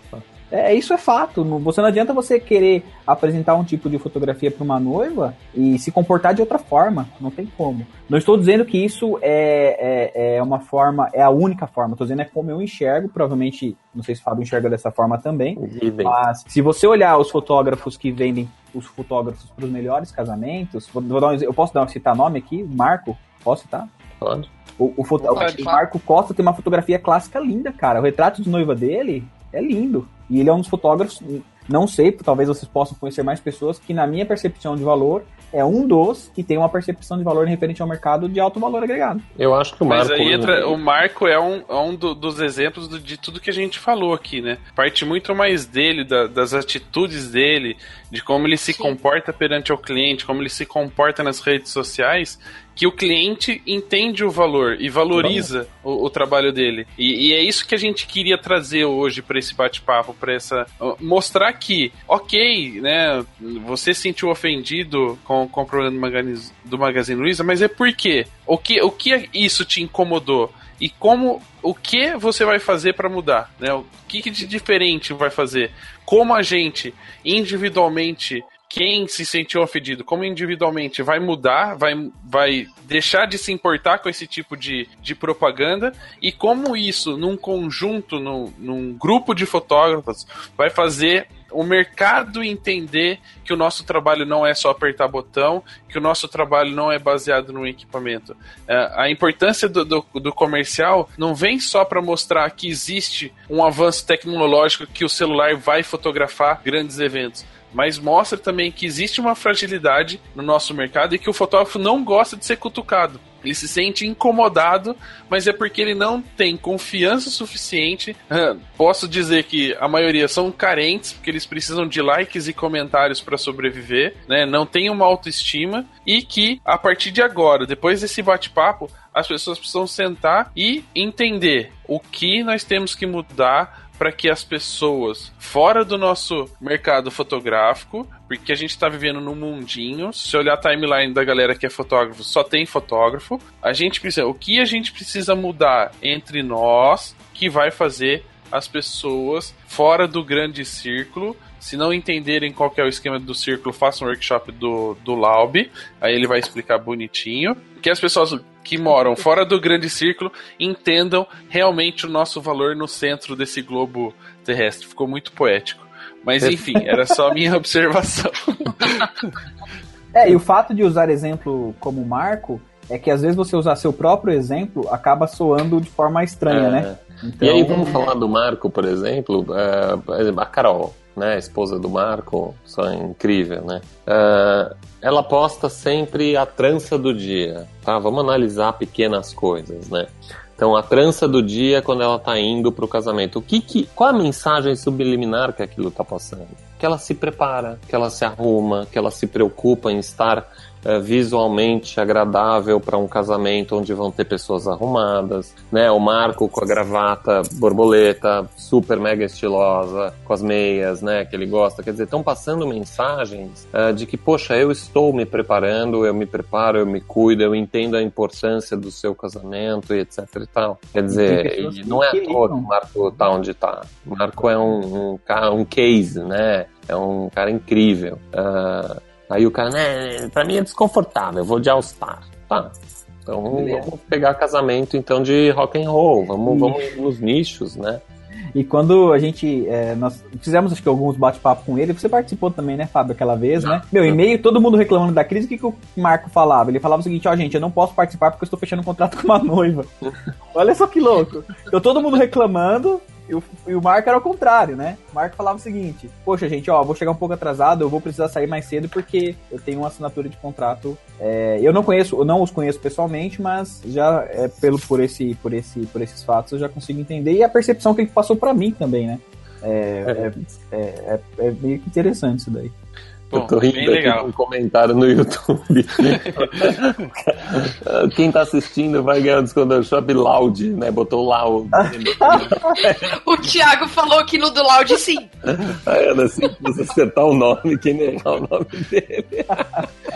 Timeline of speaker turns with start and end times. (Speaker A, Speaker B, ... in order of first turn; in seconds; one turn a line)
Speaker A: 0.5-23.9
Speaker B: 15.6-16.2
Speaker B: 24.2-24.5
Speaker A: 24.8-39.3
Speaker C: 25.2-25.8
Speaker D: 25.3-25.6
Speaker B: 39.4-40.8
Speaker D: 39.9-169.1
Speaker C: 48.7-49.0
Speaker B: 55.1-55.5
Speaker B: 166.4-166.7
Speaker A: 170.1-178.0
Speaker B: 176.5-238.0
Speaker C: 177.7-178.1
Speaker A: 221.1-222.7
Speaker A: 233.5-233.9
Speaker A: 236.4-236.9
Speaker A: 238.5-249.9
Speaker B: 243.6-244.1
Speaker A: 250.5-272.7
Speaker B: 270.0-270.3
Speaker B: 273.3-283.1
Speaker D: 273.3-274.3
Speaker A: 281.8-282.4
Speaker C: 282.9-285.3
Speaker B: 285.4-289.8